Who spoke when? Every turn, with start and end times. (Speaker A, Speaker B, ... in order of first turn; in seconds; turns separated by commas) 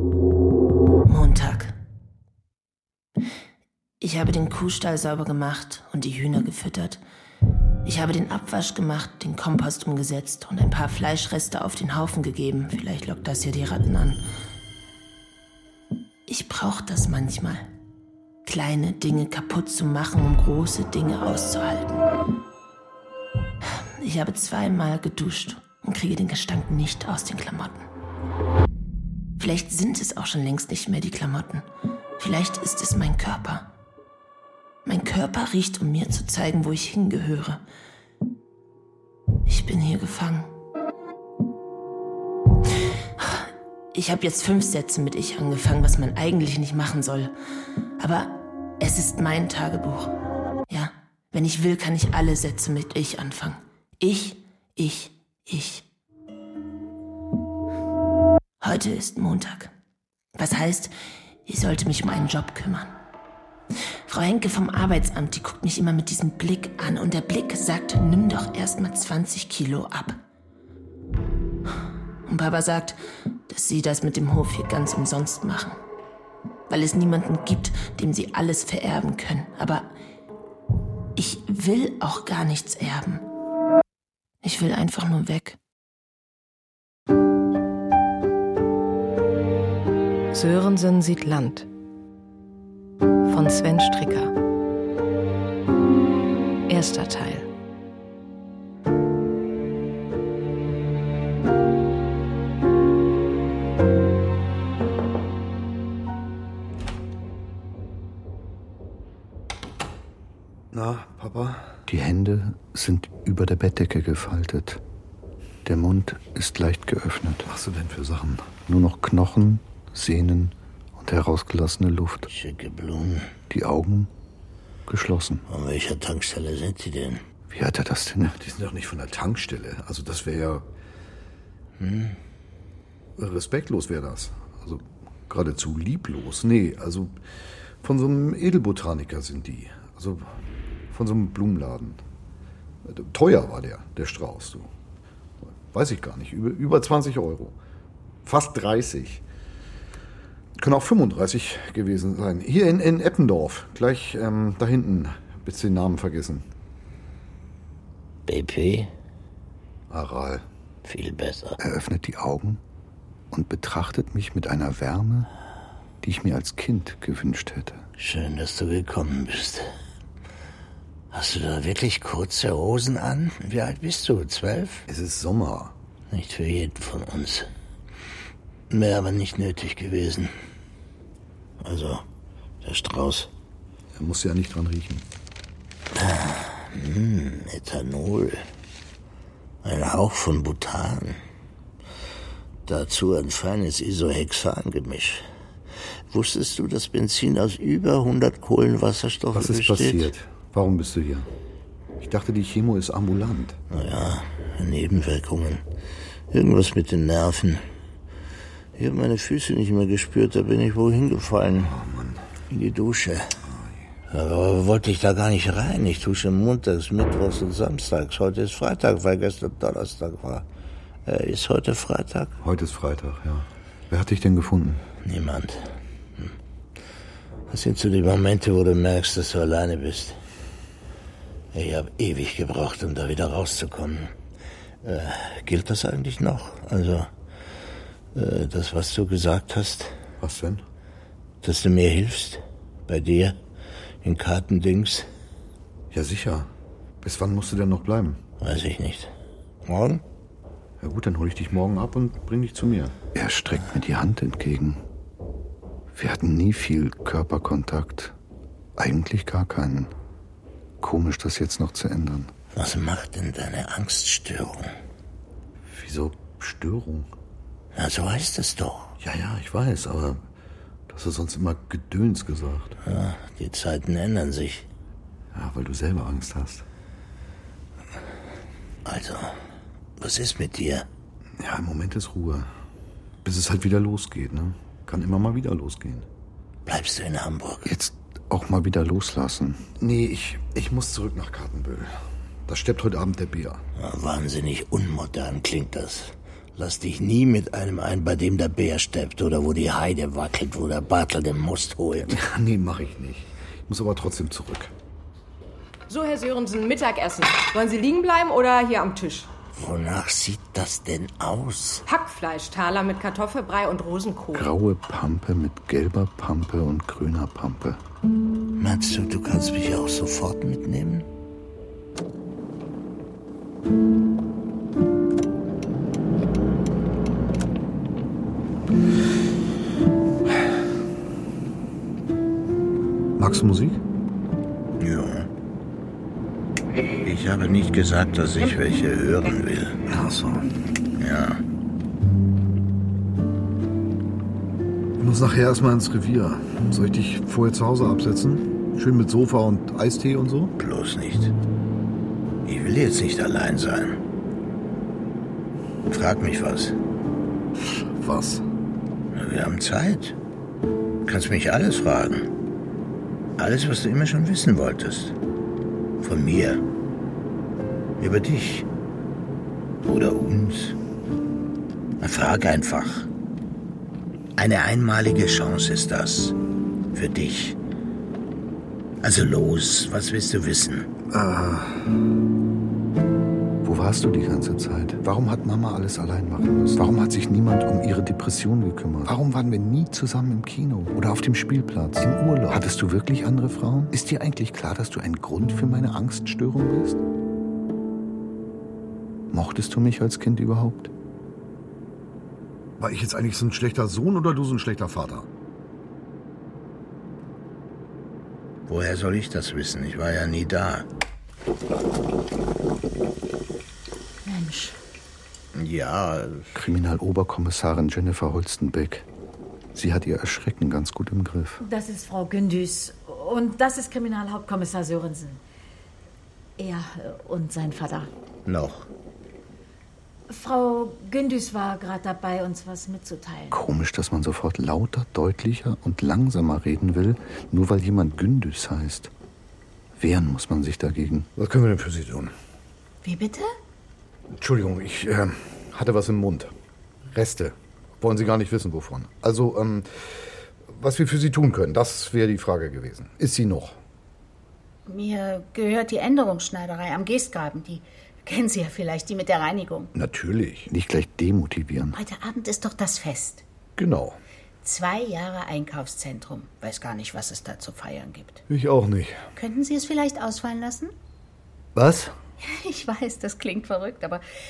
Speaker A: 1.1-1.7, Speaker A: 4.0-7.0, Speaker A: 7.8-14.2, Speaker A: 16.3-17.7, Speaker A: 18.4-21.9, Speaker A: 23.8-27.8, Speaker A: 29.4-31.6, Speaker A: 32.2-33.7, Speaker A: 34.8-37.6, Speaker A: 39.5-40.5, Speaker A: 43.2-47.3, Speaker A: 48.0-50.1, Speaker A: 50.7-55.8, Speaker A: 58.6-59.7, Speaker A: 60.4-60.9, Speaker A: 61.4-62.9, Speaker A: 64.1-70.2, Speaker A: 72.3-75.8, Speaker A: 76.7-79.9, Speaker A: 81.2-83.2, Speaker A: 84.4-85.6, Speaker B: 90.3-91.7, Speaker B: 93.3-94.3, Speaker B: 96.7-97.5, Speaker C: 110.7-111.7, Speaker D: 111.9-114.8, Speaker D: 115.6-117.5, Speaker C: 117.5-118.5, Speaker D: 118.6-122.3, Speaker E: 122.3-123.3, Speaker D: 123.5-124.1, Speaker D: 124.9-125.4, Speaker E: 125.5-127.2, Speaker D: 127.5-128.4, Speaker C: 128.3-130.7, Speaker E: 131.8-132.2, Speaker C: 133.2-137.2, Speaker C: 137.8-140.3, Speaker C: 140.9-142.0, Speaker C: 142.8-144.7, Speaker C: 145.7-147.6, Speaker C: 148.2-149.2, Speaker C: 150.6-156.4, Speaker E: 158.3-158.9, Speaker C: 159.9-160.4, Speaker E: 160.8-161.6, Speaker D: 161.6-162.6, Speaker D: 163.3-165.3, Speaker D: 166.0-167.8, Speaker E: 168.0-169.7, Speaker E: 171.1-174.8, Speaker C: 174.9-175.7, Speaker E: 176.1-177.5, Speaker E: 178.7-180.3, Speaker E: 181.6-182.0, Speaker E: 182.6-183.3, Speaker C: 183.9-185.1, Speaker E: 185.9-188.4, Speaker E: 189.6-191.2, Speaker E: 192.7-195.2, Speaker E: 196.1-200.1, Speaker C: 199.3-201.3, Speaker C: 202.0-203.6, Speaker E: 203.7-205.6, Speaker E: 206.3-207.6, Speaker E: 208.8-211.7, Speaker C: 211.6-212.2, Speaker E: 212.5-213.3, Speaker C: 213.4-213.8, Speaker E: 214.1-220.4, Speaker E: 221.1-222.3, Speaker C: 222.4-224.8, Speaker E: 225.0-226.3, Speaker E: 227.5-230.2, Speaker E: 231.5-234.1, Speaker E: 234.8-237.1, Speaker E: 238.1-240.0, Speaker C: 240.2-240.6, Speaker E: 241.4-243.4, Speaker E: 244.0-245.1, Speaker C: 245.9-246.5, Speaker C: 247.0-248.2, Speaker E: 248.4-249.1, Speaker E: 249.7-250.0, Speaker C: 250.8-252.9, Speaker D: 253.1-254.8, Speaker D: 255.9-258.1, Speaker D: 258.8-259.9, Speaker D: 260.8-262.3, Speaker E: 262.5-264.7, Speaker D: 265.7-266.4, Speaker C: 265.8-267.0, Speaker E: 267.7-268.9, Speaker C: 269.0-270.2, Speaker C: 270.9-272.8, Speaker E: 272.8-274.7, Speaker C: 275.3-276.6, Speaker E: 278.8-279.4, Speaker E: 280.0-280.9, Speaker C: 281.4-282.5, Speaker C: 283.2-286.1, Speaker E: 286.6-287.7, Speaker D: 287.6-289.7, Speaker C: 289.8-291.9, Speaker C: 292.5-293.6, Speaker E: 293.8-302.1, Speaker C: 302.0-304.7, Speaker F: 305.9-309.3, Speaker E: 309.5-311.8, Speaker F: 311.9-314.5, Speaker D: 314.3-317.8, Speaker E: 318.6-321.1, Speaker C: 333.2-333.8, Speaker E: 334.8-335.3, Speaker E: 337.0-339.8, Speaker C: 339.9-340.5, Speaker E: 341.0-341.4, Speaker C: 345.0-350.5, Speaker E: 350.6-351.3, Speaker E: 352.4-354.0, Speaker E: 355.9-356.8, Speaker C: 357.7-358.4, Speaker E: 359.1-360.1, Speaker E: 361.1-362.3, Speaker E: 363.4-365.1, Speaker E: 366.0-366.6, Speaker E: 368.0-368.6, Speaker E: 369.8-370.8, Speaker E: 372.0-373.1, Speaker E: 374.4-376.4, Speaker E: 376.9-377.6, Speaker E: 379.0-380.9, Speaker C: 381.1-381.7, Speaker D: 383.6-389.1, Speaker C: 389.1-392.6, Speaker D: 389.9-397.0, Speaker D: 399.3-400.9, Speaker C: 402.8-405.3, Speaker E: 408.7-410.9, Speaker G: 414.2-414.8, Speaker E: 415.5-416.5, Speaker D: 416.5-419.1, Speaker D: 419.7-421.6, Speaker G: 421.6-425.4, Speaker G: 426.6-428.1, Speaker E: 428.4-428.9, Speaker G: 430.3-433.6, Speaker D: 433.5-439.1, Speaker D: 440.0-441.3, Speaker C: 441.4-442.3, Speaker H: 443.0-443.5, Speaker C: 444.4-446.5, Speaker C: 447.1-449.9, Speaker C: 450.7-453.7, Speaker H: 454.9-459.9, Speaker C: 459.9-460.6, Speaker D: 460.6-462.0, Speaker H: 461.9-463.4, Speaker C: 463.8-464.2, Speaker H: 464.6-468.4, Speaker C: 468.5-469.2, Speaker H: 469.4-470.9, Speaker C: 471.7-472.1, Speaker H: 472.4-474.2